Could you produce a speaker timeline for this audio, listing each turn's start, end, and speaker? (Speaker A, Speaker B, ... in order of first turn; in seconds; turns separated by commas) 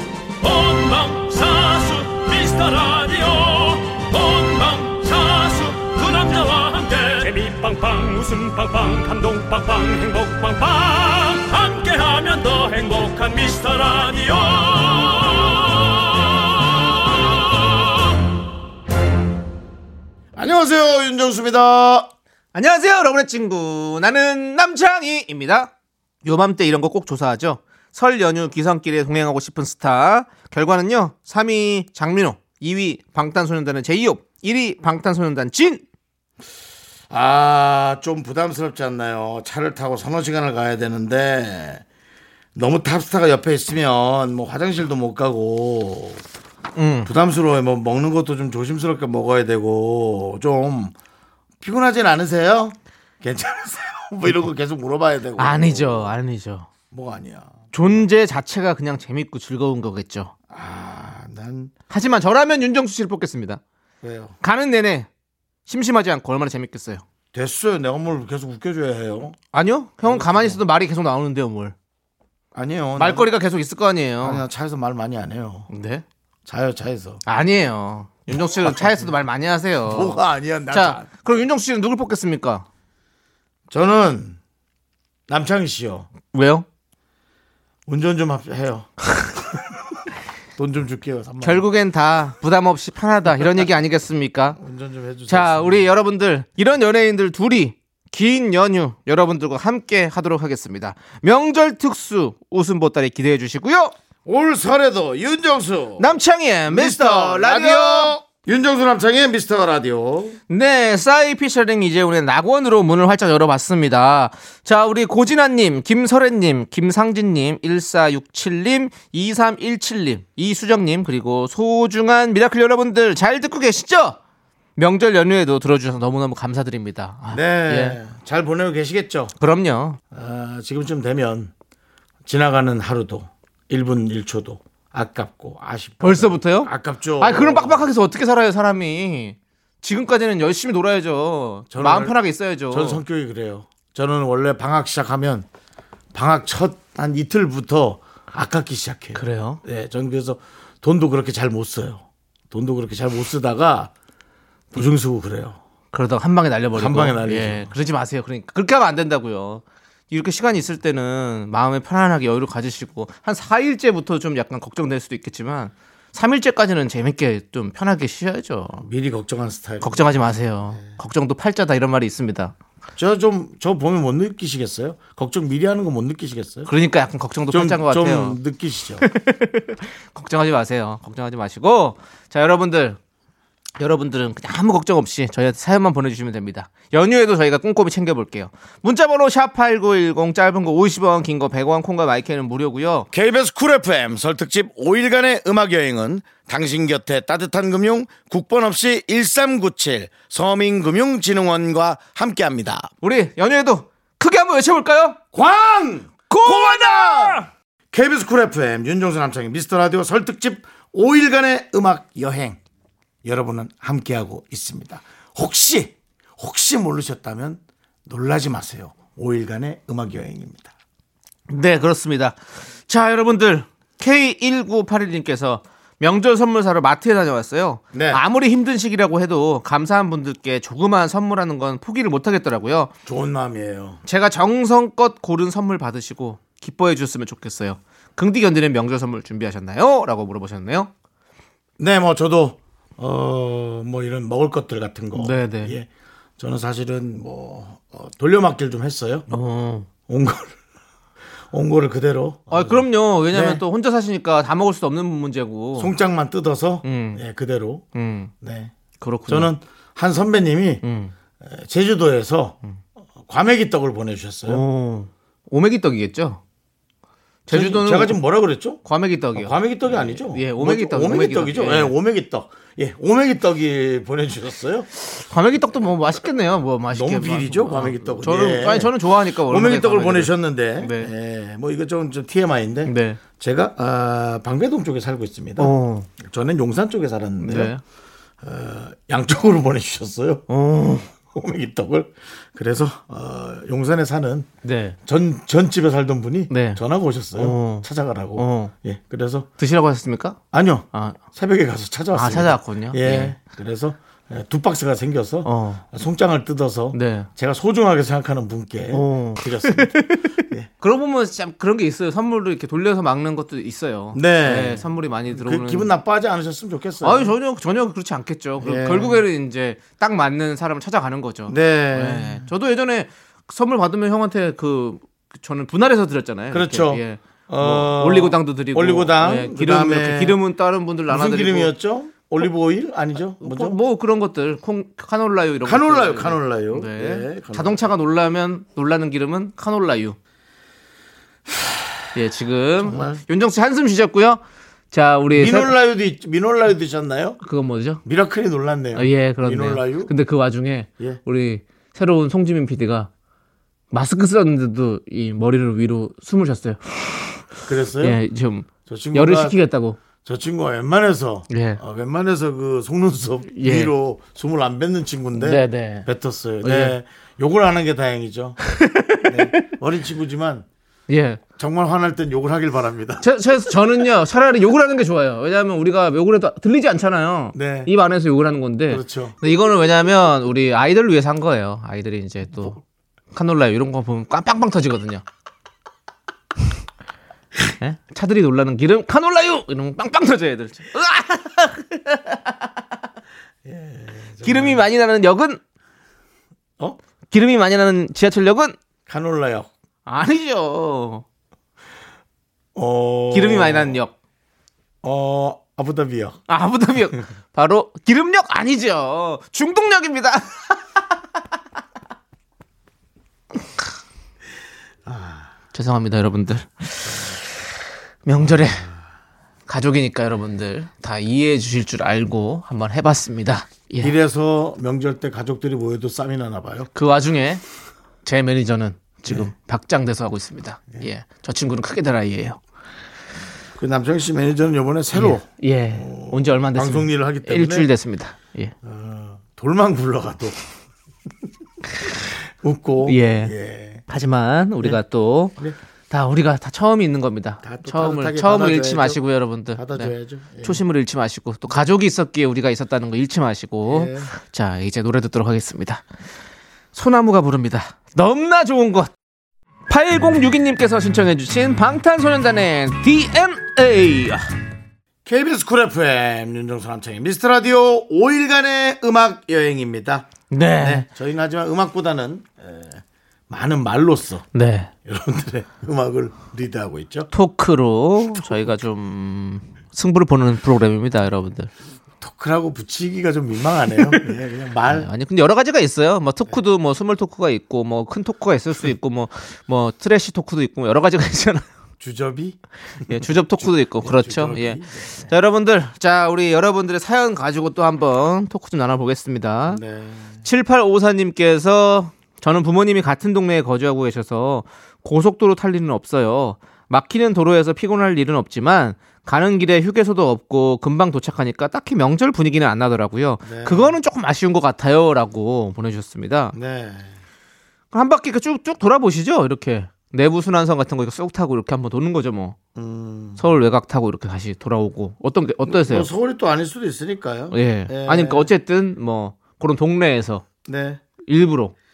Speaker A: 0.4-18.1, Speaker B: 20.4-22.1, Speaker C: 22.5-25.7, Speaker C: 26.2-35.9, Speaker B: 37.1-41.8, Speaker B: 42.5-46.2, Speaker C: 46.8-47.1, Speaker B: 47.0-50.9, Speaker B: 51.6-56.1, Speaker C: 55.4-56.7, Speaker B: 56.9-58.1, Speaker C: 57.7-60.3, Speaker B: 60.5-61.7, Speaker C: 61.9-63.6, Speaker B: 64.0-64.3, Speaker C: 64.4-65.1, Speaker C: 65.7-67.0, Speaker B: 67.3-69.4, Speaker C: 69.5-71.8, Speaker B: 70.0-70.6, Speaker B: 72.5-73.3, Speaker C: 73.0-74.4, Speaker B: 74.2-75.7, Speaker C: 75.7-76.0, Speaker B: 76.5-77.2, Speaker C: 77.3-82.7, Speaker B: 78.3-79.1, Speaker B: 79.8-81.1, Speaker B: 83.7-84.4, Speaker B: 85.3-86.1, Speaker C: 86.3-86.7, Speaker B: 87.9-88.9, Speaker B: 90.6-91.7, Speaker C: 91.4-94.6, Speaker B: 94.6-95.9, Speaker C: 95.3-103.9, Speaker B: 104.3-110.4, Speaker C: 106.0-108.2, Speaker C: 110.5-124.2, Speaker C: 124.8-128.0, Speaker B: 127.3-129.3, Speaker C: 129.4-130.0, Speaker B: 130.1-131.5, Speaker B: 132.3-137.9, Speaker C: 136.0-143.0, Speaker B: 141.7-142.2, Speaker B: 142.7-145.5, Speaker B: 146.1-153.9, Speaker C: 149.2-149.6, Speaker B: 154.7-155.6, Speaker C: 155.9-168.8, Speaker B: 156.7-157.7, Speaker B: 168.8-170.1, Speaker C: 169.8-172.5, Speaker B: 173.0-176.7, Speaker C: 176.7-178.4, Speaker B: 177.5-179.1, Speaker C: 179.0-183.0, Speaker C: 183.8-193.1, Speaker B: 193.1-202.9, Speaker C: 203.0-205.2, Speaker B: 205.3-212.6, Speaker C: 206.3-207.4, Speaker B: 213.2-220.7, Speaker C: 221.5-232.9, Speaker B: 227.9-228.2, Speaker B: 233.1-234.0, Speaker C: 234.1-240.9, Speaker B: 241.8-249.3, Speaker C: 245.2-245.8, Speaker C: 249.3-249.9, Speaker B: 250.1-250.6, Speaker B: 251.5-253.6, Speaker C: 252.5-255.9, Speaker B: 255.8-257.9, Speaker C: 256.8-257.2, Speaker C: 257.9-258.3, Speaker B: 258.4-258.7, Speaker C: 259.0-259.5, Speaker B: 259.3-260.8, Speaker C: 260.8-261.1, Speaker B: 261.4-262.6, Speaker B: 263.2-264.6, Speaker C: 264.5-266.4, Speaker C: 267.5-268.2, Speaker B: 267.5-268.8, Speaker C: 268.9-271.9, Speaker B: 269.4-274.9, Speaker C: 275.0-281.1, Speaker B: 276.9-287.7, Speaker C: 282.9-283.2, Speaker C: 285.6-286.1, Speaker C: 287.4-287.8, Speaker B: 288.4-290.4, Speaker C: 290.5-291.1, Speaker B: 291.1-294.5, Speaker C: 294.6-295.0, Speaker B: 295.1-299.5, Speaker C: 296.5-296.8, Speaker C: 297.4-298.7, Speaker C: 299.6-300.4, Speaker B: 300.5-310.7, Speaker C: 300.9-301.2, Speaker C: 302.1-303.4, Speaker C: 305.4-305.9, Speaker C: 306.9-307.3, Speaker C: 308.9-315.9, Speaker B: 314.1-317.3, Speaker C: 317.0-331.7, Speaker B: 318.6-319.2, Speaker B: 321.5-322.4, Speaker B: 326.5-330.4, Speaker B: 331.1-333.8, Speaker C: 333.4-340.2, Speaker B: 335.6-337.8, Speaker C: 342.1-345.8, Speaker B: 342.8-343.2, Speaker B: 345.4-347.4, Speaker C: 347.4-348.0, Speaker B: 348.1-350.1, Speaker C: 348.9-353.1, Speaker C: 353.9-357.4, Speaker B: 357.7-358.2, Speaker C: 358.0-360.0, Speaker B: 358.9-359.6, Speaker B: 360.2-368.6, Speaker C: 361.5-361.8, Speaker C: 363.5-363.9, Speaker C: 365.4-366.1, Speaker C: 366.6-367.0, Speaker C: 368.7-369.7, Speaker B: 369.2-370.7, Speaker C: 371.1-371.4, Speaker B: 371.6-373.2, Speaker C: 373.2-382.8, Speaker B: 377.6-377.9, Speaker B: 378.9-379.4, Speaker C: 383.3-385.2, Speaker C: 387.8-392.7, Speaker B: 393.6-394.9, Speaker C: 394.4-395.6, Speaker C: 397.3-398.8, Speaker B: 399.1-399.7, Speaker C: 400.1-401.2, Speaker B: 402.8-404.0, Speaker C: 403.3-404.2, Speaker B: 405.0-406.4, Speaker C: 406.5-411.0, Speaker B: 415.1-415.5, Speaker C: 415.7-417.4, Speaker C: 418.3-418.9, Speaker C: 419.7-424.2, Speaker B: 424.0-426.9, Speaker C: 426.9-427.6, Speaker C: 428.2-432.6, Speaker B: 433.8-437.9, Speaker C: 435.1-438.7, Speaker B: 438.8-440.6, Speaker B: 442.4-444.0, Speaker C: 443.1-443.5, Speaker C: 444.1-445.6, Speaker C: 446.1-456.0, Speaker B: 447.6-449.2, Speaker B: 449.7-450.8, Speaker B: 453.9-454.3, Speaker C: 456.9-459.1, Speaker C: 459.9-464.5, Speaker B: 465.3-474.4, Speaker C: 470.5-471.1, Speaker C: 474.5-474.9, Speaker B: 475.1-477.3, Speaker C: 477.3-481.7, Speaker B: 482.2-485.1, Speaker C: 484.9-491.7, Speaker B: 492.0-495.2, Speaker C: 493.1-499.8, Speaker B: 499.7-500.4, Speaker C: 500.4-516.5, Speaker B: 513.4-514.0, Speaker B: 516.5-517.1, Speaker C: 517.9-522.6, Speaker B: 522.8-523.4, Speaker C: 523.4-526.1, Speaker B: 525.7-528.5, Speaker C: 527.5-530.5, Speaker B: 530.7-531.0, Speaker C: 531.2-531.7